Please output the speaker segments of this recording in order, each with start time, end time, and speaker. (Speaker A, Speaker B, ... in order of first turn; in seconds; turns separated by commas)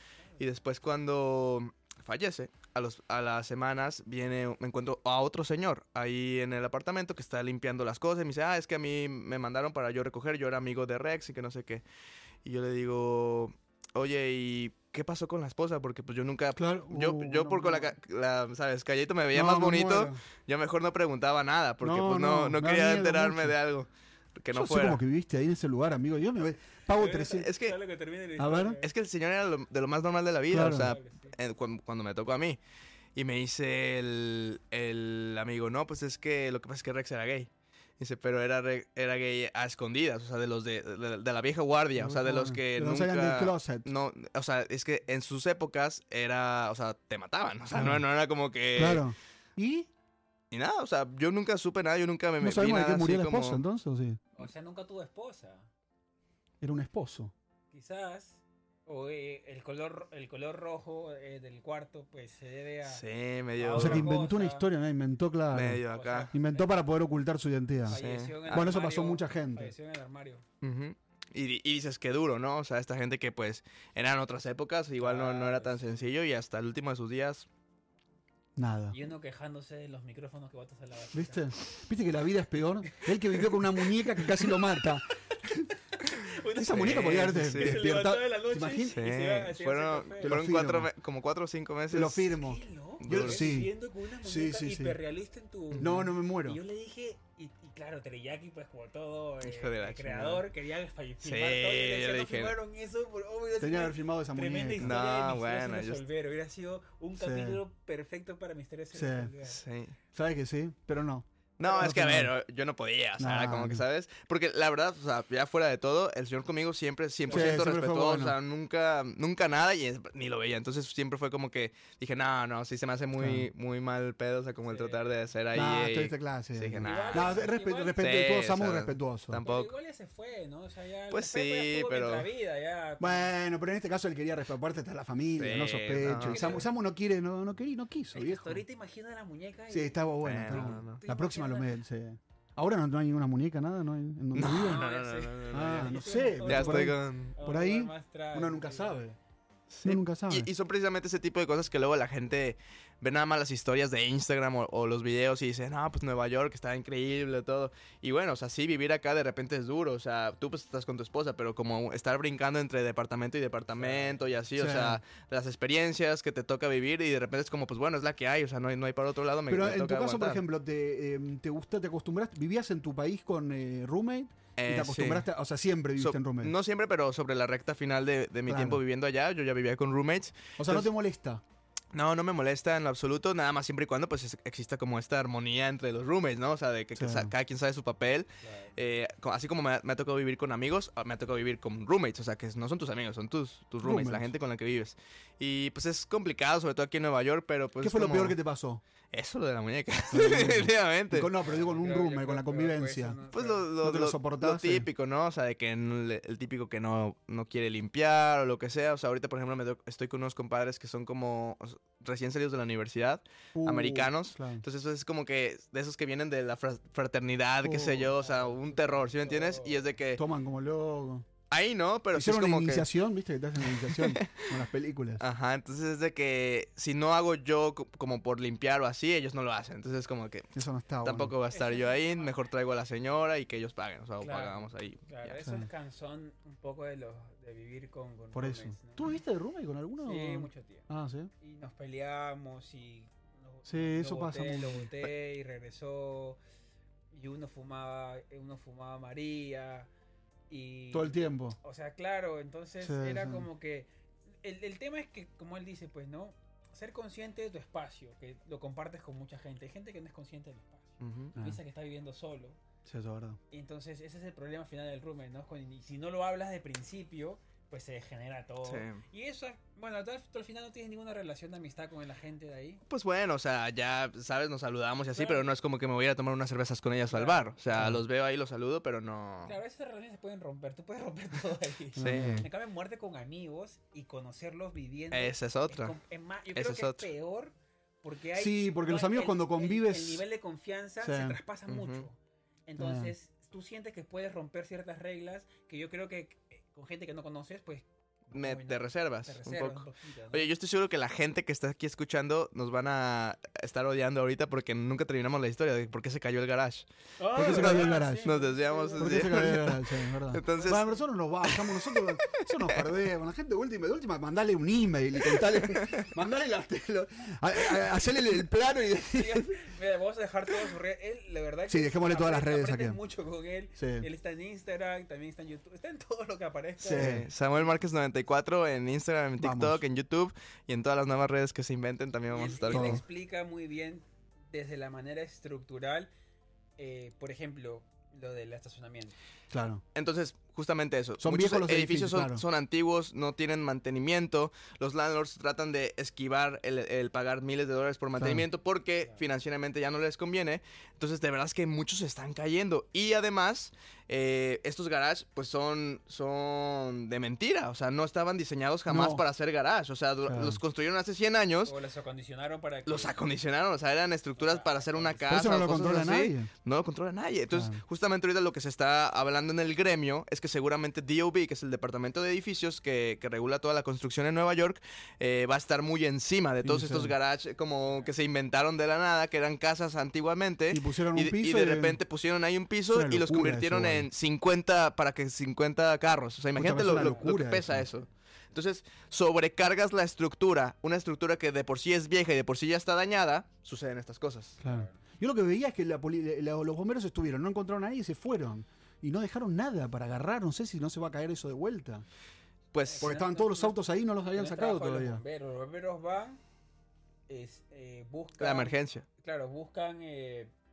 Speaker A: 0.4-11.8, Speaker A: 12.4-25.0, Speaker B: 16.6-17.9, Speaker B: 19.3-20.2, Speaker B: 21.8-23.6, Speaker B: 24.5-27.5, Speaker C: 26.9-28.9, Speaker A: 27.3-27.8, Speaker B: 28.4-28.8, Speaker A: 28.8-32.6, Speaker B: 30.5-31.0, Speaker C: 30.6-31.3, Speaker A: 33.2-49.0, Speaker B: 42.0-43.9, Speaker B: 47.7-48.0, Speaker B: 48.8-49.9, Speaker A: 50.5-53.6, Speaker B: 52.4-54.2, Speaker C: 54.4-55.7, Speaker B: 56.6-57.3, Speaker C: 57.7-63.0, Speaker A: 62.9-64.1, Speaker C: 63.6-64.7, Speaker B: 63.7-69.7, Speaker A: 65.5-66.3, Speaker C: 65.9-66.7, Speaker C: 67.9-70.4, Speaker A: 67.9-68.7, Speaker A: 70.6-77.5, Speaker C: 75.0-76.0, Speaker B: 78.6-79.0, Speaker C: 78.9-81.5, Speaker B: 81.1-85.7, Speaker C: 83.4-84.5, Speaker C: 85.4-90.4, Speaker B: 86.6-89.0, Speaker A: 86.7-87.8, Speaker A: 88.8-92.3, Speaker B: 90.2-90.9, Speaker B: 91.9-95.0, Speaker C: 92.4-109.6, Speaker A: 93.0-93.6, Speaker B: 95.8-96.6, Speaker A: 99.4-100.4, Speaker A: 101.2-102.6, Speaker B: 103.6-105.0, Speaker A: 104.8-106.0, Speaker B: 107.2-107.6, Speaker B: 108.9-109.3, Speaker A: 109.5-110.0, Speaker B: 110.1-112.3, Speaker A: 111.6-127.4, Speaker C: 111.6-112.0, Speaker B: 113.2-113.8, Speaker C: 117.3-117.6, Speaker B: 117.3-118.4, Speaker B: 123.2-123.5, Speaker C: 124.7-125.1, Speaker B: 125.5-129.4, Speaker C: 126.8-128.0, Speaker A: 128.0-129.7, Speaker C: 129.4-133.3, Speaker A: 131.1-132.3, Speaker B: 133.0-138.6, Speaker A: 135.4-136.6, Speaker C: 136.2-136.7, Speaker C: 138.1-141.7, Speaker B: 139.7-144.8, Speaker A: 140.2-141.0, Speaker A: 144.3-147.3, Speaker C: 144.6-149.0, Speaker B: 145.5-149.2, Speaker A: 149.7-170.4, Speaker B: 149.8-150.5, Speaker C: 163.8-164.2, Speaker B: 164.6-165.0, Speaker B: 169.5-176.6, Speaker A: 174.6-175.3, Speaker A: 176.0-180.9, Speaker B: 178.5-178.8, Speaker B: 180.6-181.4, Speaker A: 181.9-198.4, Speaker B: 187.0-187.3, Speaker C: 188.4-188.8, Speaker B: 193.8-194.3, Speaker B: 197.8-198.8, Speaker A: 199.1-201.3, Speaker B: 200.1-203.2, Speaker C: 201.4-203.7, Speaker A: 203.3-220.2, Speaker B: 203.8-204.9, Speaker B: 213.6-214.6, Speaker B: 217.6-218.2, Speaker C: 218.2-219.9, Speaker B: 220.2-221.3, Speaker A: 221.5-222.9, Speaker B: 222.1-225.2, Speaker A: 223.6-224.5, Speaker A: 225.2-235.4, Speaker B: 230.6-231.3, Speaker C: 231.5-232.4, Speaker C: 234.2-239.2, Speaker B: 235.4-235.7, Speaker B: 238.3-241.3, Speaker C: 240.0-240.9, Speaker C: 241.4-246.4, Speaker B: 243.7-244.9, Speaker C: 247.1-249.9, Speaker C: 250.5-253.9, Speaker B: 250.9-251.6, Speaker B: 252.8-253.5, Speaker C: 254.4-262.6, Speaker A: 261.0-261.4, Speaker B: 262.9-263.4, Speaker C: 263.5-272.8, Speaker A: 268.6-269.0, Speaker A: 272.9-279.6, Speaker C: 275.1-275.5, Speaker C: 277.1-277.9, Speaker B: 277.8-278.0, Speaker C: 279.4-300.5, Speaker B: 282.0-282.5, Speaker A: 282.0-282.5, Speaker A: 285.1-286.0, Speaker A: 286.5-287.1, Speaker B: 288.4-290.2, Speaker B: 291.0-291.4, Speaker A: 291.7-292.1, Speaker B: 292.8-293.1, Speaker A: 298.3-310.9, Speaker C: 307.2-309.4, Speaker B: 307.4-308.3, Speaker B: 309.0-319.5, Speaker C: 310.4-311.0, Speaker A: 311.4-312.9, Speaker A: 315.3-316.1, Speaker C: 319.1-327.3, Speaker B: 321.7-323.0, Speaker B: 323.8-324.1, Speaker B: 326.8-327.3, Speaker A: 326.8-333.0, Speaker B: 329.4-329.8, Speaker C: 332.3-336.1, Speaker B: 332.7-333.0, Speaker C: 336.8-339.1, Speaker B: 339.5-339.8, Speaker A: 339.9-361.8, Speaker B: 341.2-342.4, Speaker B: 348.2-348.5, Speaker B: 358.9-359.2, Speaker B: 360.3-360.6, Speaker C: 361.6-363.2, Speaker A: 362.9-394.6, Speaker C: 364.4-365.6, Speaker B: 365.3-366.5, Speaker B: 367.5-367.8, Speaker B: 376.6-377.1, Speaker B: 380.7-382.0, Speaker B: 382.9-384.1, Speaker B: 386.6-387.9, Speaker C: 387.0-387.3, Speaker B: 394.6-402.1, Speaker C: 394.6-395.0, Speaker A: 402.7-403.1, Speaker C: 402.9-406.4, Speaker B: 403.0-405.2, Speaker C: 407.3-410.5, Speaker A: 408.4-409.1